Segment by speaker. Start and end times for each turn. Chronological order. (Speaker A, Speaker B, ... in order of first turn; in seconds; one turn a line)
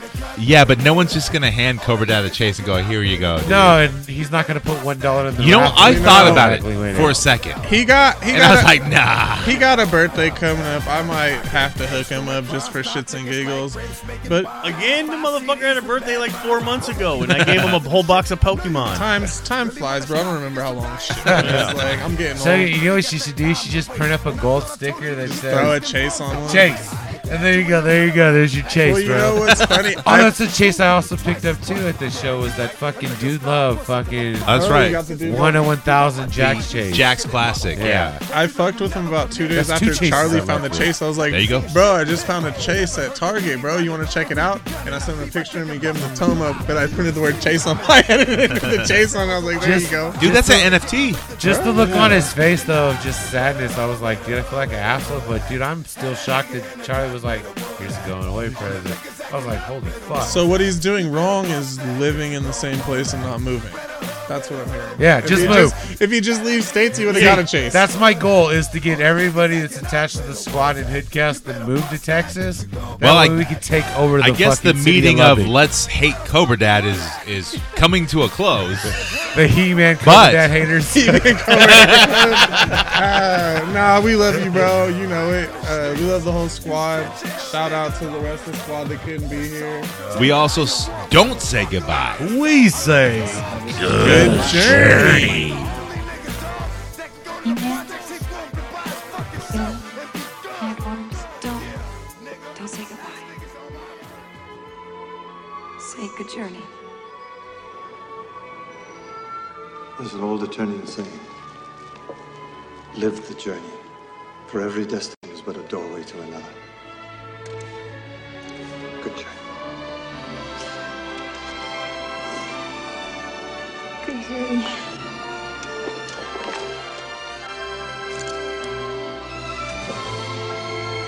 Speaker A: 0.3-3.8
Speaker B: 3.4-7.2
Speaker A: 5.4-7.6
Speaker C: 5.8-6.6
Speaker C: 7.6-8.8
Speaker A: 8.3-9.6
Speaker C: 9.4-14.5
Speaker D: 14.6-19.1
Speaker C: 18.9-22.7
Speaker B: 21.3-21.7
Speaker D: 21.3-21.8
Speaker B: 22.3-25.8
Speaker C: 25.2-26.8
Speaker B: 26.4-37.1
Speaker C: 28.8-30.4
Speaker A: 34.5-35.0
Speaker C: 34.5-35.7
Speaker A: 36.4-38.1
Speaker B: 37.8-38.2
Speaker C: 38.3-50.2
Speaker B: 39.5-40.9
Speaker A: 41.3-41.7
Speaker B: 49.6-50.7
Speaker A: 50.2-51.2
Speaker B: 51.4-60.4
Speaker C: 51.4-52.3
Speaker C: 60.2-67.8
Speaker B: 65.0-65.8
Speaker B: 67.1-75.6
Speaker A: 73.0-73.5
Speaker A: 74.2-79.0
Speaker B: 79.1-81.8
Speaker A: 80.0-80.6
Speaker C: 80.9-89.9
Speaker A: 81.8-82.6
Speaker B: 84.4-84.7
Speaker A: 90.1-92.3
Speaker B: 92.2-95.7
Speaker A: 93.8-94.4
Speaker C: 93.9-95.3
Speaker E: 97.4-98.2
Speaker E: 99.5-99.8
Speaker E: 100.5-101.7
Speaker E: 102.5-103.4
Speaker E: 105.8-106.7
Speaker F: 110.0-111.2
Speaker F: 112.9-113.8
Speaker F: 114.5-116.5
Speaker F: 119.0-119.3
Speaker E: 124.1-124.7